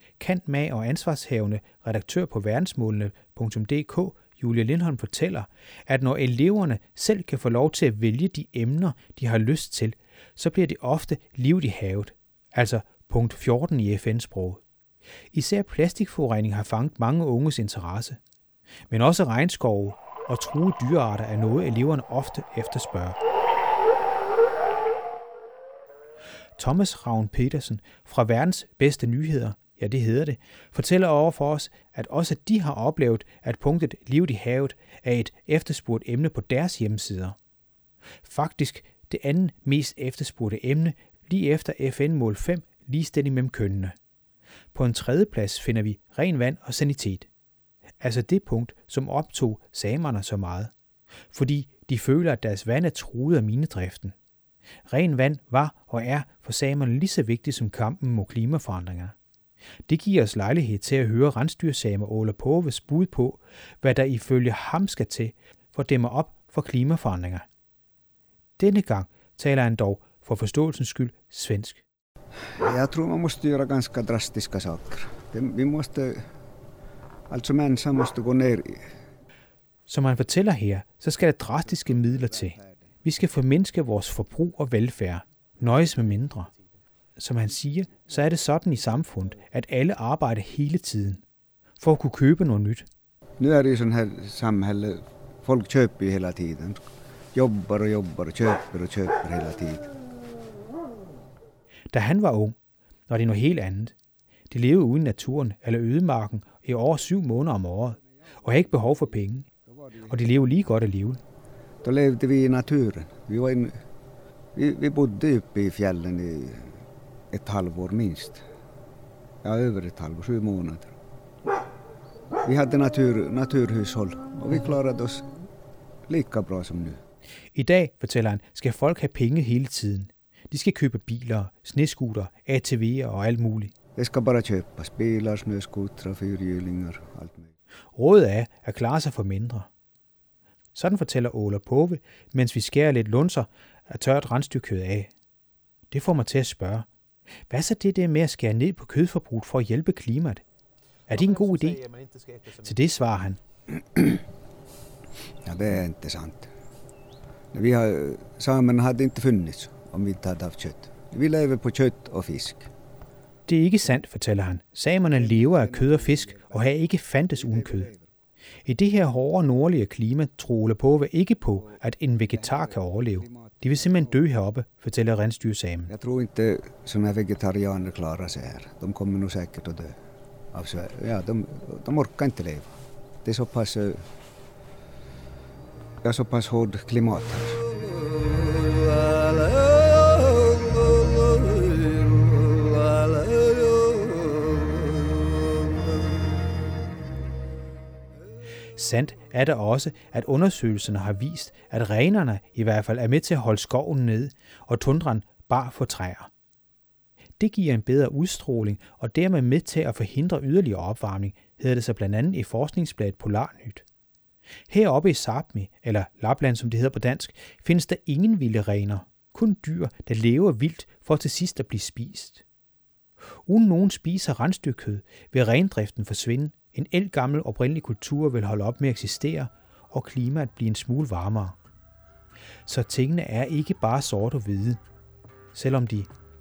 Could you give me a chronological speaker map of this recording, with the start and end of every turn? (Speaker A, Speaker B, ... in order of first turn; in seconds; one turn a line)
Speaker A: 0.2-14.6
Speaker A: 15.3-18.2
Speaker A: 18.9-23.2
Speaker A: 26.6-37.4
Speaker A: 38.2-43.9
Speaker A: 44.7-47.3
Speaker A: 48.0-50.7
Speaker A: 51.3-54.1
Speaker A: 54.9-59.1
Speaker A: 59.9-67.4
Speaker A: 68.6-71.8
Speaker B: 72.6-76.2
Speaker B: 77.3-78.9
Speaker A: 79.9-86.5
Speaker B: 81.8-82.7
Speaker A: 87.2-91.2
Speaker A: 91.8-92.9
Speaker B: 93.4-96.8
Speaker B: 97.3-99.9
Speaker A: 101.9-102.5
Speaker A: 103.1-103.9
Speaker A: 104.5-109.5
Speaker B: 109.8-110.2
Speaker A: 110.0-111.2
Speaker B: 111.8-113.8
Speaker B: 114.5-116.8
Speaker B: 117.3-118.4
Speaker B: 119.4-120.9
Speaker B: 122.4-125.3
Speaker B: 126.1-127.0
Speaker A: 127.5-133.7
Speaker B: 134.0-137.5
Speaker A: 137.9-139.7
Speaker A: 140.7-145.1
Speaker A: 145.9-146.9
Speaker A: 147.5-150.4
Speaker A: 151.1-151.9
Speaker A: 152.5-153.4
Speaker B: 155.4-156.5
Speaker B: 157.5-162.7
Speaker A: 163.5-167.9
Speaker B: 165.1-166.8
Speaker B: 167.3-168.1
Speaker A: 168.7-175.9
Speaker B: 172.3-174.2
Speaker B: 175.9-179.9
Speaker B: 180.5-182.7
Speaker B: 183.2-184.0
Speaker B: 186.0-187.6
Speaker A: 198.8-206.3
Speaker A: 207.4-213.8
Speaker A: 214.7-222.4
Speaker A: 223.4-231.6
Speaker A: 232.7-234.8
Speaker A: 235.5-236.1